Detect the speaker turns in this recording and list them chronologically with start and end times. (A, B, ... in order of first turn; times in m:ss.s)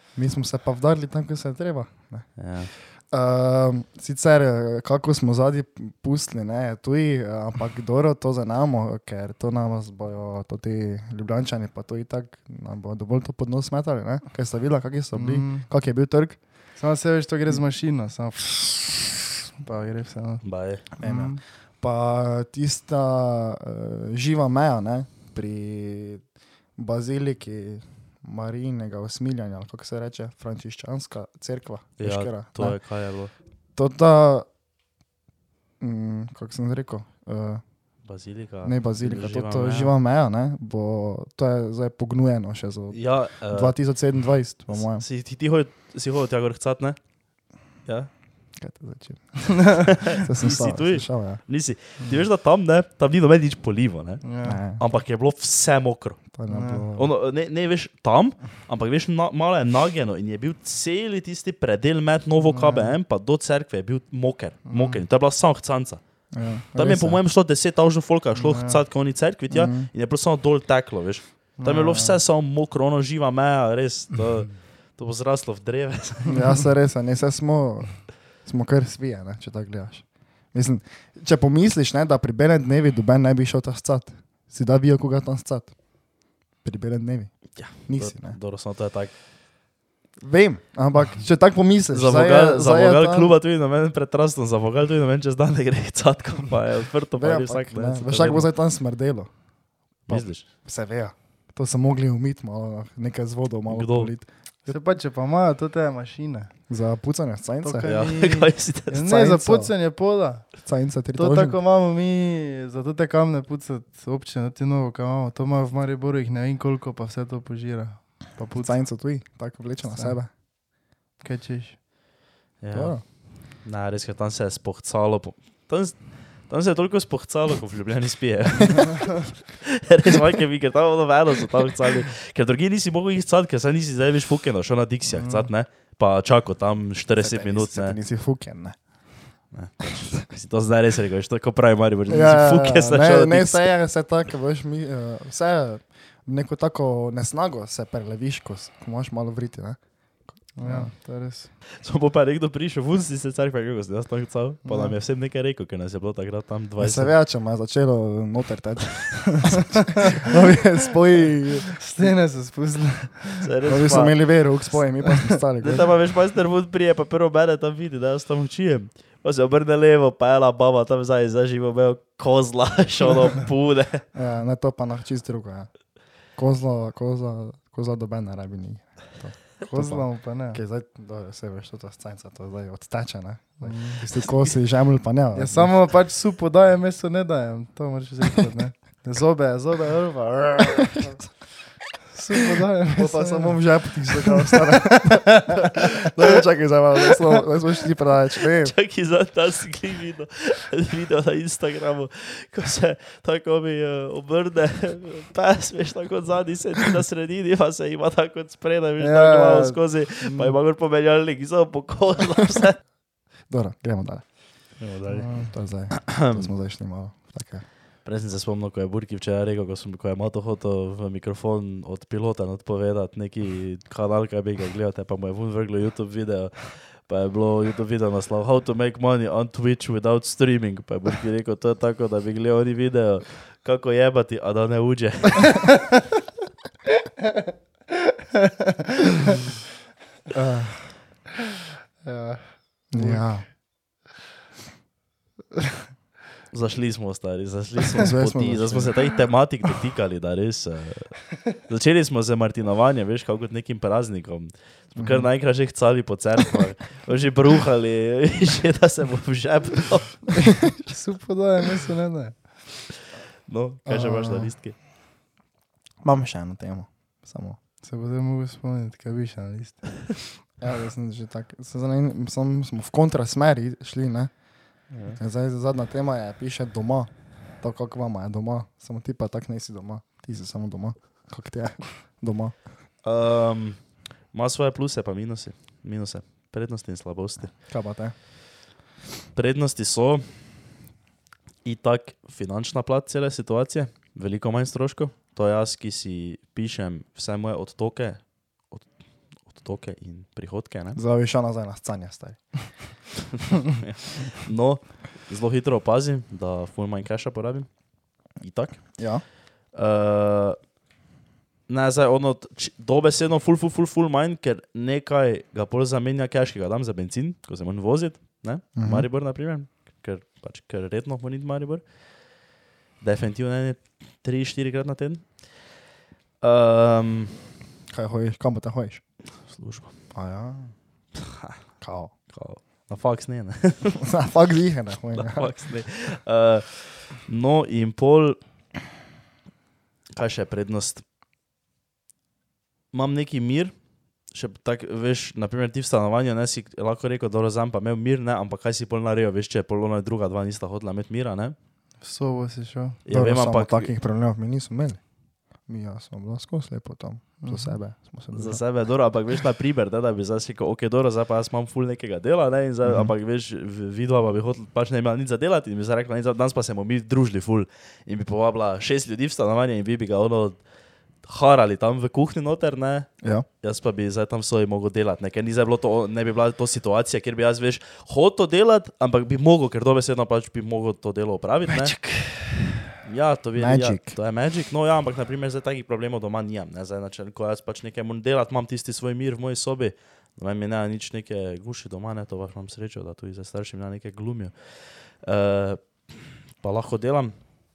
0:00.1-0:02.3 A
0:02.4-0:02.7 B
0:02.9-0:16.4 A
0:15.1-0:15.7 C
0:16.8-0:20.4 C
0:20.4-0:20.9 B
0:21.0-0:26.2 A
0:21.0-0:21.4 C
0:26.8-0:32.8 A
0:32.0-0:33.3 B
0:33.8-0:34.5 A
0:35.8-0:37.6 A
0:38.0-0:39.9 B
0:38.6-0:45.0 A
0:42.9-0:43.8 B
0:44.7-0:47.0 B
0:48.6-0:51.4 A
0:49.9-0:56.2 B
0:54.2-0:54.6 C
0:54.4-0:54.8 A
0:56.3-0:57.1 A
0:56.5-0:56.9 C
0:57.0-1:06.0 B
1:02.4-1:03.0 C
1:04.7-1:05.0 C
1:06.3-1:07.2 A
1:06.8-1:16.5 B
1:08.3-1:08.8 C
1:09.5-1:09.9 A
1:11.6-1:12.2 C
1:16.3-1:25.7 A
1:26.6-1:27.3 A
1:27.6-1:29.1 B
1:27.9-1:28.4 A
1:30.2-1:33.4 A
1:31.9-1:38.5 B
1:37.2-1:39.3 A
1:40.1-1:44.8 A
1:40.1-1:40.4 B
1:43.7-1:44.1 B
1:44.6-1:46.5 C
1:46.7-1:47.9 A
1:47.6-1:50.5 C
1:47.8-1:49.1 B
1:49.0-1:49.8 A
1:50.6-1:51.6 A
1:51.1-1:58.8 C
1:58.6-2:00.3 A
1:59.9-2:00.2 C
2:01.2-2:01.8 C
2:02.6-2:18.0 B
2:02.7-2:03.0 A
2:15.2-2:15.5 C
2:17.2-2:18.8 A
2:19.5-2:23.6 B
2:22.1-2:29.8 A
2:30.6-2:31.5 C
2:30.6-2:30.9 A
2:31.8-2:37.1 B
2:34.6-2:34.9 C
2:36.8-2:41.8 A
2:41.8-2:43.5 C
2:43.4-2:44.2 B
2:43.6-2:45.9 A
2:45.6-2:54.0 B
2:54.1-2:55.7 A
2:56.4-3:05.8 A
2:59.7-3:00.6 C
3:03.6-3:04.0 C
3:05.3-3:11.2 C
3:10.8-3:11.3 A
3:12.1-3:13.6 C
3:13.0-3:18.8 A
3:14.2-3:15.6 C
3:18.5-3:32.8 B
3:29.0-3:30.5 C
3:33.5-3:34.2 A
3:34.8-3:36.5 B
3:35.1-3:35.5 C
3:35.5-3:37.6 A
3:38.0-3:55.8 B
3:58.4-3:58.7 C
4:00.3-4:00.9 A
4:02.0-4:03.3 C
4:02.9-4:03.5 A
4:06.5-4:20.6 B
4:08.0-4:09.1 A
4:15.0-4:15.3 A
4:20.9-4:22.4 C
4:23.5-4:24.8 B
4:23.9-4:24.5 A
4:26.0-4:27.6 A
4:27.8-4:30.2 C
4:30.6-4:34.4 A
4:34.9-4:35.2 C
4:35.2-4:42.6 A
4:43.0-4:47.5 B
4:47.6-4:48.2 A
4:49.4-4:50.3 B
4:51.6-4:58.9 B
4:59.4-5:01.0 B
5:01.0-5:02.4 A
5:03.4-5:07.7 B
5:08.4-5:09.0 B
5:09.0-5:09.2 A
5:09.7-5:10.6 B
5:11.7-5:21.9 B
5:18.8-5:19.1 A
5:23.0-5:25.5 B
5:26.4-5:27.4 B
5:27.9-5:29.0 A
5:29.4-5:29.9 B
5:30.1-5:30.8 A
5:31.2-5:31.6 B
5:31.8-5:32.1 A
5:32.3-5:34.0 B
5:34.0-5:35.5 A
5:35.1-5:38.4 B
5:40.1-5:41.0 B
5:42.9-5:43.7 B
5:44.3-5:51.6 B
5:52.0-5:53.0 C
5:53.0-5:53.9 B
5:53.1-5:55.0 A
5:55.7-5:58.6 A
5:57.4-5:57.8 C
5:58.3-6:10.6 B
6:02.8-6:03.1 A
6:11.2-6:22.0 B
6:22.0-6:22.3 A
6:23.0-6:37.4 B
6:23.6-6:24.2 A